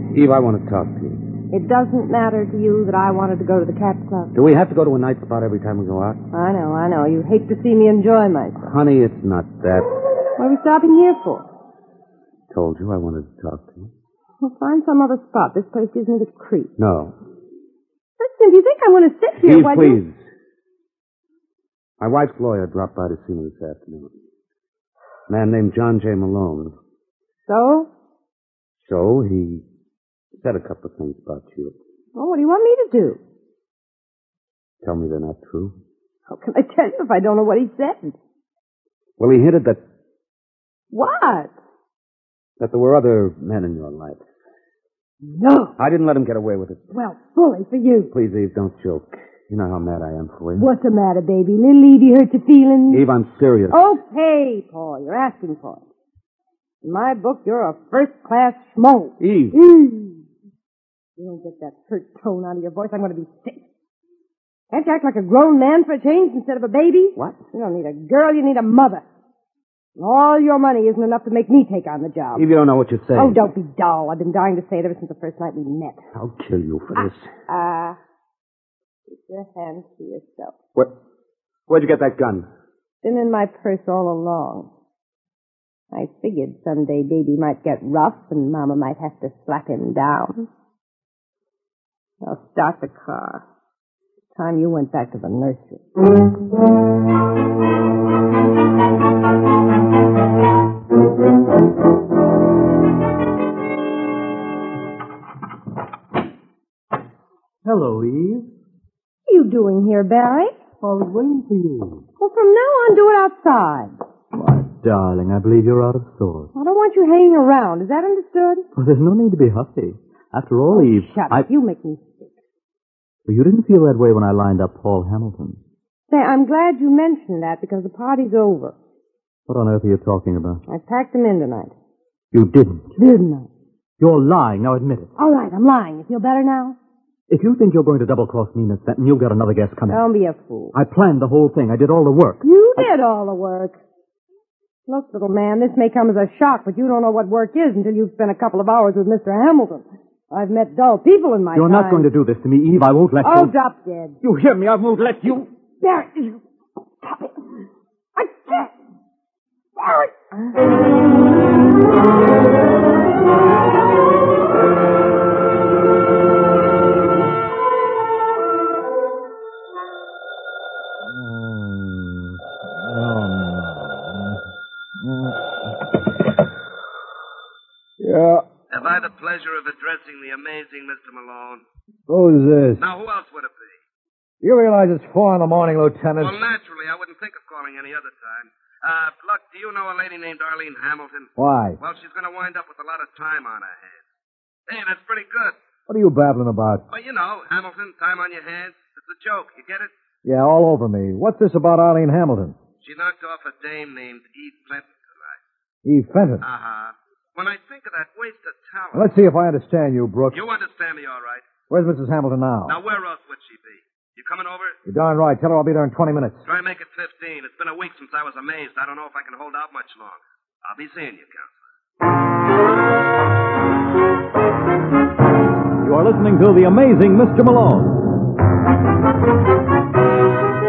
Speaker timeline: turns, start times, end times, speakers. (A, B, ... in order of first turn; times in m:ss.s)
0:00.1-0:01.2 A
0:01.5-0:04.3 B
0:04.3-0:06.2 A
0:06.3-0:08.7 B
0:08.6-0:09.9 A
0:10.4-0:11.4 B
0:12.5-0:13.9 A
0:14.4-0:16.7 B
0:16.8-0:17.1 A
0:18.2-0:20.0 B
0:19.4-0:20.1 A
0:22.0-0:24.1 A
0:25.3-0:26.7 A
0:27.4-0:27.9 B
0:28.8-0:29.6 A
0:30.4-0:31.7 A
0:32.1-0:33.2 B
0:34.8-0:35.7 A
0:36.3-0:38.2 B
0:39.2-0:39.8 A
0:40.9-0:41.5 B
0:42.6-0:44.2 A
0:45.2-0:45.7 B
0:45.8-0:46.8 A
0:46.9-0:48.1 B
0:48.1-0:50.7 A
0:50.6-0:53.0 B
0:52.9-0:53.8 A
0:53.7-0:55.8 B
0:56.8-1:00.2 B
0:59.2-0:59.6 A
1:01.2-1:03.6 B
1:04.7-1:09.0 B
1:10.0-1:12.4 B
1:12.3-1:13.4 A
1:13.1-1:16.0 B
1:16.1-1:17.3 A
1:17.0-1:18.0 B
1:19.1-1:20.5 B
1:21.7-1:22.5 A
1:23.0-1:24.7 B
1:25.9-1:30.5 B
1:32.2-1:33.4 B
1:34.3-1:35.8 B
1:47.6-1:48.5 C
1:49.3-1:50.6 B
1:50.8-1:52.0 C
1:52.2-1:53.9 B
1:54.3-1:56.5 C
1:56.5-1:58.6 B
1:58.7-2:01.5 C
2:00.7-2:02.2 B
2:03.2-2:05.6 C
2:06.1-2:08.7 B
2:09.5-2:10.6 C
2:10.7-2:11.7 B
2:12.3-2:12.9 C
2:13.0-2:13.5 B
2:14.0-2:15.1 C
2:15.2-2:16.8 B
2:17.3-2:20.0 C
2:19.9-2:20.7 B
2:20.7-2:22.9 C
2:22.4-2:23.8 B
2:24.9-2:32.1 B
2:31.5-2:33.5 C
2:33.2-2:34.2 B
2:34.2-2:35.4 A
2:35.8-2:36.4 B
2:37.0-2:37.3 B
2:38.2-2:38.7 B
2:39.8-2:40.1 B
2:51.1-2:54.3 D
2:55.0-2:55.4 D
2:58.0-2:58.4 D
2:58.7-3:01.6 E
3:02.1-3:02.8 D
3:02.8-3:03.8 E
3:04.4-3:06.4 D
3:06.2-3:14.0 E
3:11.4-3:11.8 D
3:14.7-3:15.6 E
3:15.9-3:16.8 D
3:16.9-3:19.9 E
3:20.2-3:22.6 D
3:22.8-3:25.4 E
3:25.8-3:26.4 D
3:26.4-3:29.1 E
3:28.9-3:30.4 D
3:30.3-3:31.5 E
3:31.7-3:32.8 D
3:32.7-3:34.8 E
3:34.8-3:36.4 D
3:36.4-3:41.6 E
3:45.8-3:48.0 F